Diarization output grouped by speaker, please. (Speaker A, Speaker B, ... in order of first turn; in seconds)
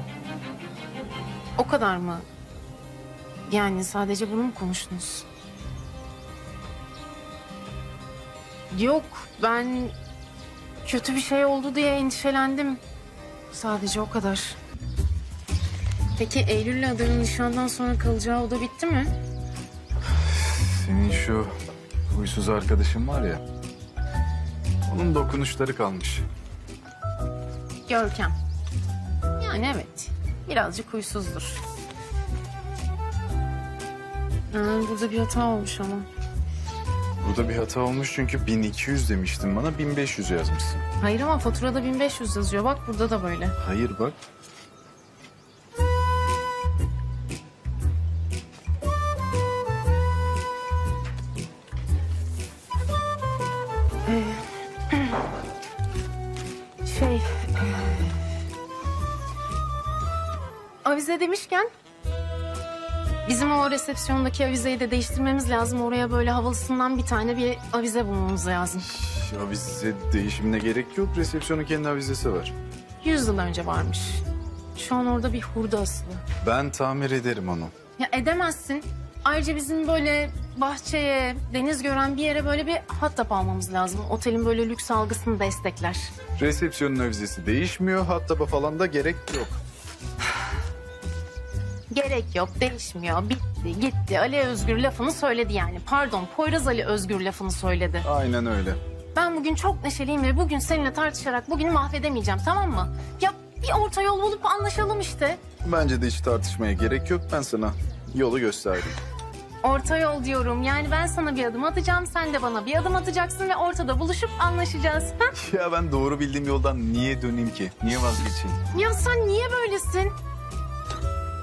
Speaker A: 1.6-2.3, 3.5-5.3, 8.7-9.9, 10.8-12.8, 13.5-14.6, 16.2-19.1, 27.9-28.4, 29.4-31.6, 34.5-36.1, 41.0-43.6, 54.1-55.2, 56.8-58.2, 60.8-61.7, 63.2-68.9, 73.0-74.2, 74.8-76.2, 78.0-86.1, 91.9-98.1, 99.1-105.5, 109.6-115.3, 118.7-120.1
Speaker B: 20.3-21.5, 22.1-23.4, 24.9-26.3, 37.2-40.9, 43.6-44.2, 68.8-72.5, 76.4-77.7, 86.4-89.5, 98.0-98.8, 105.6-109.0, 115.4-118.6